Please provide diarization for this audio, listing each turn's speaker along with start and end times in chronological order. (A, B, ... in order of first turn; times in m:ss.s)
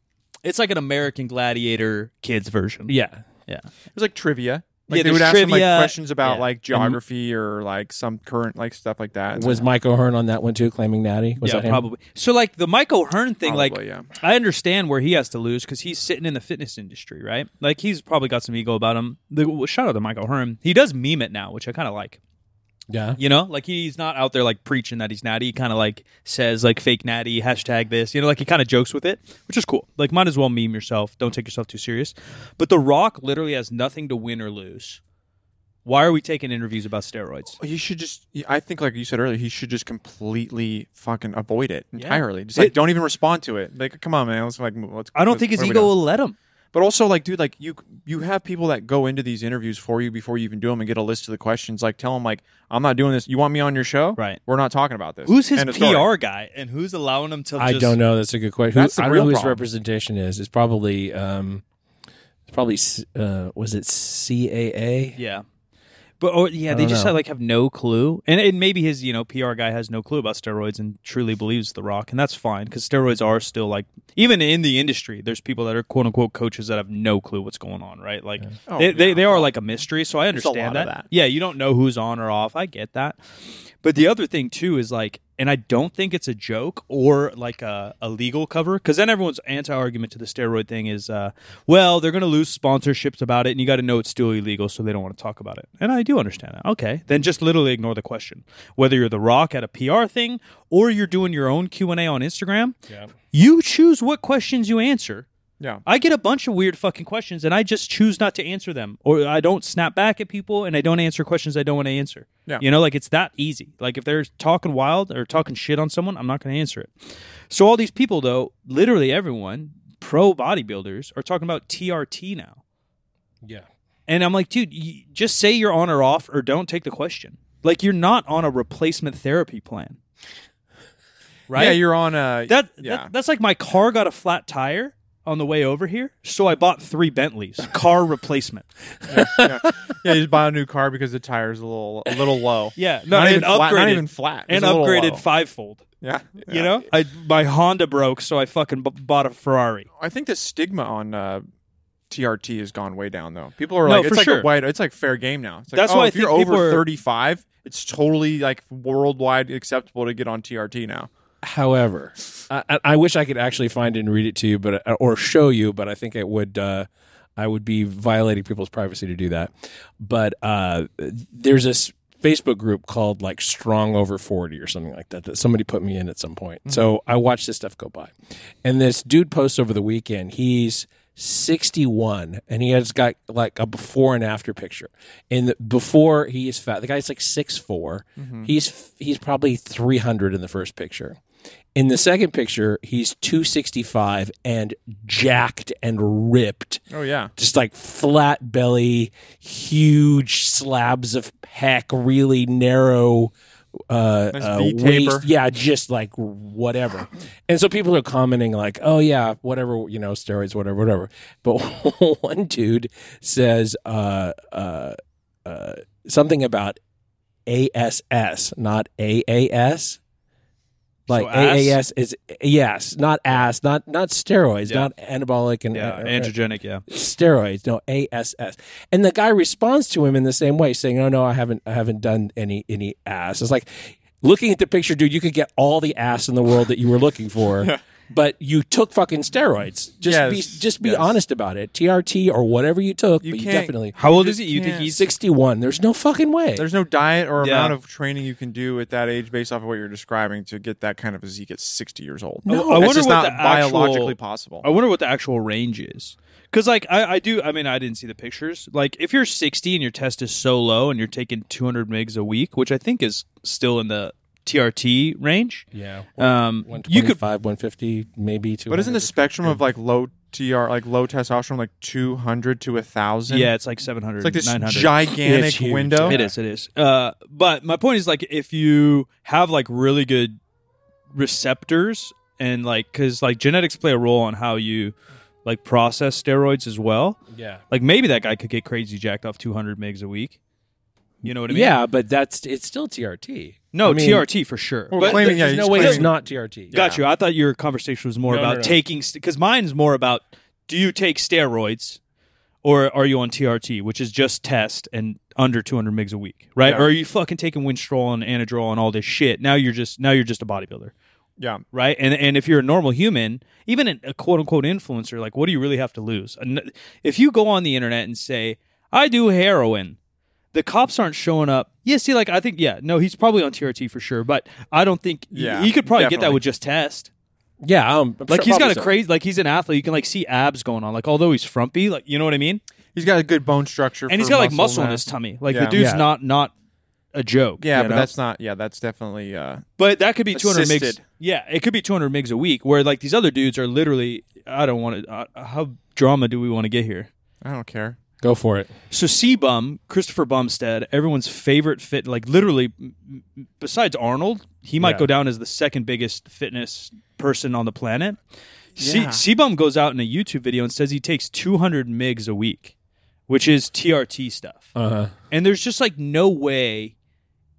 0:00.4-0:03.0 A
0:02.9-0:03.2 B
0:03.9-0:09.7 C
0:04.9-0:06.4 A
0:06.7-0:07.0 B
0:09.3-0:11.8 B
0:11.4-0:22.2 A
0:13.4-0:14.1 C
0:22.9-0:23.2 B
0:23.2-0:35.0 A
0:35.8-0:37.6 A
0:37.6-0:45.9 C
0:42.0-0:42.7 A
0:45.1-0:46.4 A
0:46.7-0:56.1 C
0:55.2-0:58.0 A
0:57.6-1:01.6 B
0:58.8-0:59.6 C
1:02.5-1:05.2 B
1:05.2-1:05.4 A
1:06.2-1:23.2 A
1:06.7-1:07.1 B
1:18.7-1:19.5 C
1:20.3-1:21.1 C
1:23.8-1:42.8 A
1:43.3-1:45.2 A
1:45.8-1:56.9 A
1:57.5-2:02.6 A
2:04.1-2:10.0 A
2:11.5-2:11.8 A
2:11.5-2:13.1 C
2:12.5-2:18.6 A
2:19.1-2:19.6 B
2:19.1-2:25.2 C
2:22.8-2:25.8 A
2:26.0-2:26.8 C
2:26.5-2:29.9 A
2:30.0-2:31.4 C
2:32.1-2:41.1 C
2:33.8-2:34.5 A
2:35.8-2:36.8 A
2:41.4-3:11.2 B
3:08.2-3:08.5 C
3:11.8-3:16.8 B
3:16.9-3:17.3 C
3:17.4-3:23.3 B
3:23.9-3:36.8 B
3:24.3-3:25.3 C
3:37.5-3:40.0 B
3:41.1-3:46.3 B
3:41.1-3:41.8 A
3:45.7-3:46.8 A
3:46.9-4:03.9 B
4:00.0-4:01.1 C
4:03.2-4:04.9 C
4:03.9-4:05.0 A
4:04.9-4:06.6 B
4:06.6-4:14.6 C
4:07.4-4:07.8 A
4:12.5-4:12.8 B
4:12.5-4:25.6 A
4:25.7-4:29.6 B
4:26.2-4:27.2 A
4:28.7-4:33.5 C
4:33.3-4:34.9 A
4:34.2-4:36.2 C
4:35.2-4:36.3 B
4:36.0-4:40.4 A
4:41.1-4:47.2 A
4:47.3-4:47.6 B
4:47.7-4:50.4 A
4:51.2-4:51.8 A
4:51.2-4:54.3 B
4:53.7-4:56.1 A
4:54.9-4:56.1 C
4:55.0-4:56.7 B
4:56.7-4:57.0 C
4:56.7-5:02.0 A
4:58.3-4:58.8 B
5:02.6-5:10.9 A
5:06.6-5:06.9 C
5:11.7-5:20.0 A
5:20.5-5:27.1 A
5:25.3-5:26.4 C
5:27.6-5:28.9 B
5:28.3-5:32.6 A
5:32.9-5:35.8 C
5:34.1-5:36.5 A
5:35.7-5:36.1 B
5:37.1-5:38.1 A
5:37.6-5:39.6 C
5:39.8-5:47.1 A
5:40.3-5:41.0 C
5:47.4-5:48.0 C
5:48.2-5:48.7 B
5:48.9-5:58.2 A
5:54.8-5:55.1 B
5:58.8-5:59.2 C
5:58.8-6:02.7 A
6:03.3-6:04.7 A
6:04.8-6:05.1 B
6:05.3-6:06.9 A